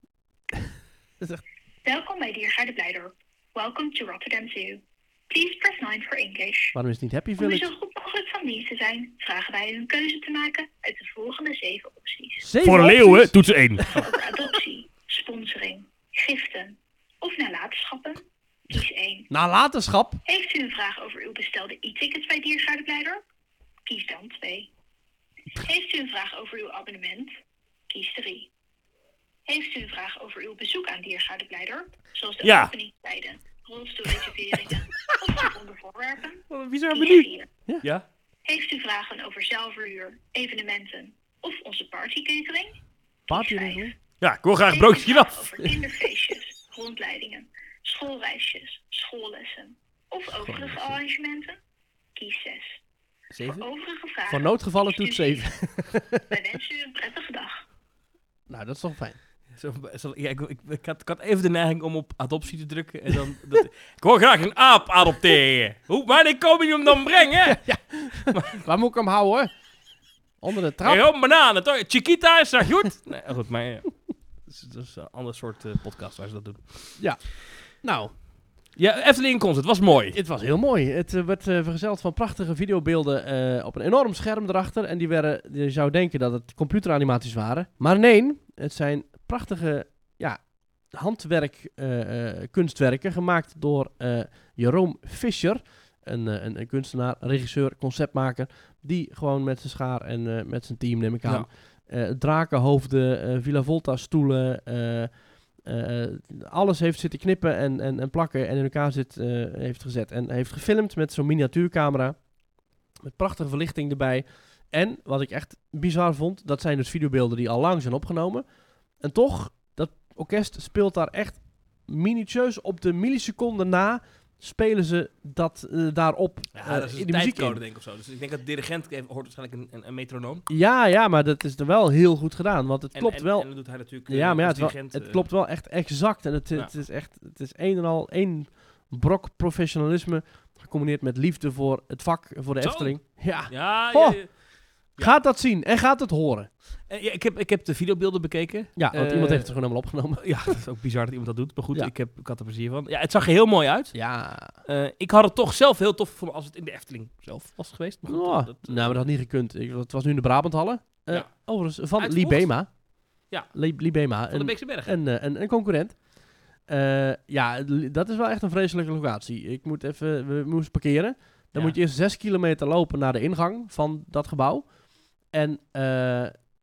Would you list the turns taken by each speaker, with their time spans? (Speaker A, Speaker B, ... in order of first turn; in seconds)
Speaker A: 1.8-6.8, 7.4-12.4, 13.8-19.3, 20.2-23.2, 23.9-24.7, 25.6-27.3, 27.9-28.5, 29.5-37.5, 38.4-42.8, 43.3-43.9, 44.7-51.6, 52.1-52.8, 53.5-55.5, 56.3-57.6
Speaker B: 6.7-7.7, 12.4-13.3, 19.3-20.2, 43.3-43.9, 50.3-51.0, 54.3-56.2, 58.5-59.2, 67.4-69.5, 70.4-71.0, 77.8-78.1, 80.1-112.2, 113.0-118.4, 119.0-127.6, 130.5-144.2, 145.0-146.5, 148.8-150.5, 153.9-154.5, 158.1-162.7, 163.5-166.0, 166.7-174.7, 175.3-176.3
Speaker C: 12.6-14.0, 32.4-32.7, 36.5-37.3, 44.2-45.4, 53.3-53.6, 59.5-67.6, 70.8-73.9, 74.5-77.0, 78.8-80.2, 126.5-130.4, 132.9-135.3, 142.6-144.4, 146.9-149.5, 150.2-154.0, 154.6-159.1, 162.0-162.5, 164.3-164.9